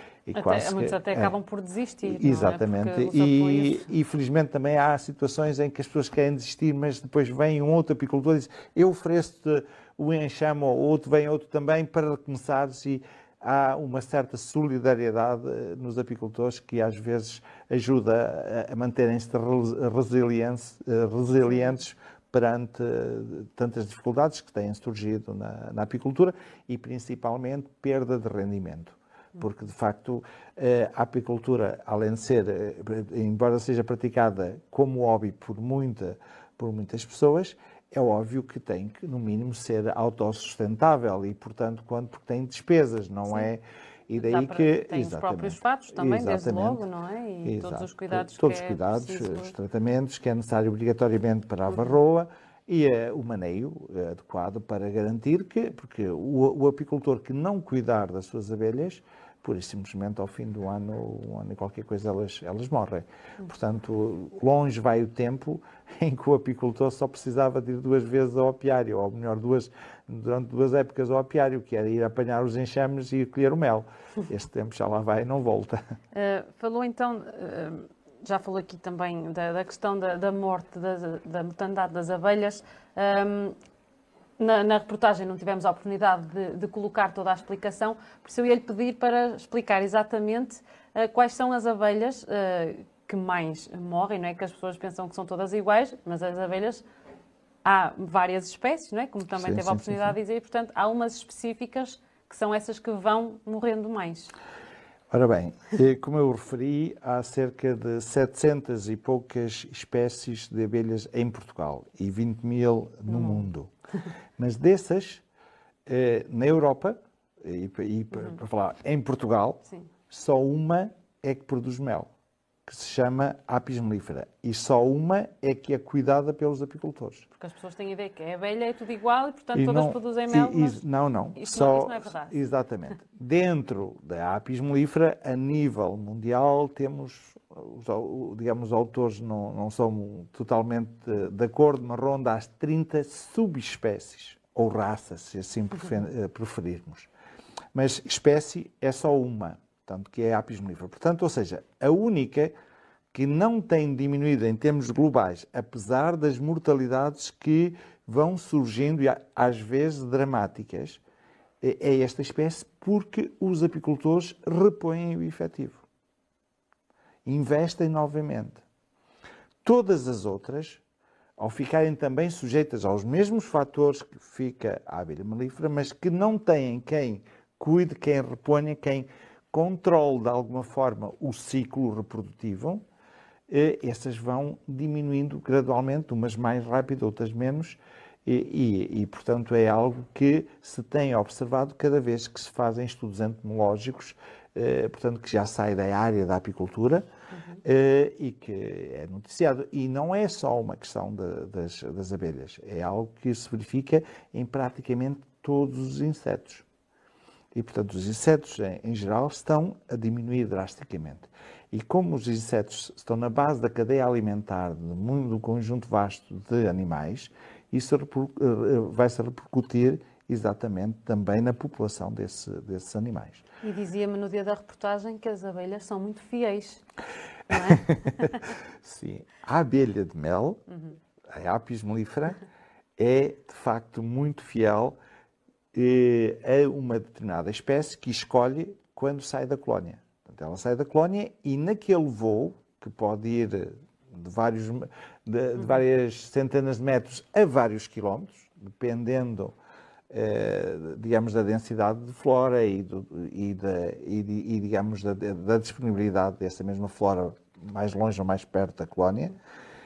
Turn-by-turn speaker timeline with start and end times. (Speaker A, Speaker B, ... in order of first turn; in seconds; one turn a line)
Speaker A: 0.2-1.3
Speaker B: 0.3-3.9
Speaker A: 2.0-46.8
Speaker B: 44.2-49.5
Speaker A: 47.4-75.8
Speaker B: 76.1-83.5
Speaker B: 84.4-96.8
Speaker B: 97.6-104.3
Speaker A: 99.3-100.1
Speaker A: 105.1-113.7
Speaker B: 113.1-113.5
Speaker A: 114.4-115.2
Speaker A: 115.8-122.1
Speaker A: 122.7-127.2
Speaker B: 127.3-130.8
Speaker A: 129.5-147.1
Speaker B: 131.3-132.3
Speaker A: 147.7-152.5
Speaker A: 153.1-161.0
Speaker A: 161.6-165.8
Speaker A: 167.2-168.6
Speaker A: 169.6-170.8
Speaker A: 171.4-182.8
Speaker A: 183.5-197.0
Speaker A: 197.6-206.6
Speaker A: 207.5-223.4
Speaker B: 223.6-226.8
Speaker B: 227.5-228.4
Speaker A: 227.5-230.6
Speaker A: 231.3-232.4
Speaker A: 233.0-235.0
Speaker A: 235.7-249.5
Speaker A: 250.1-259.4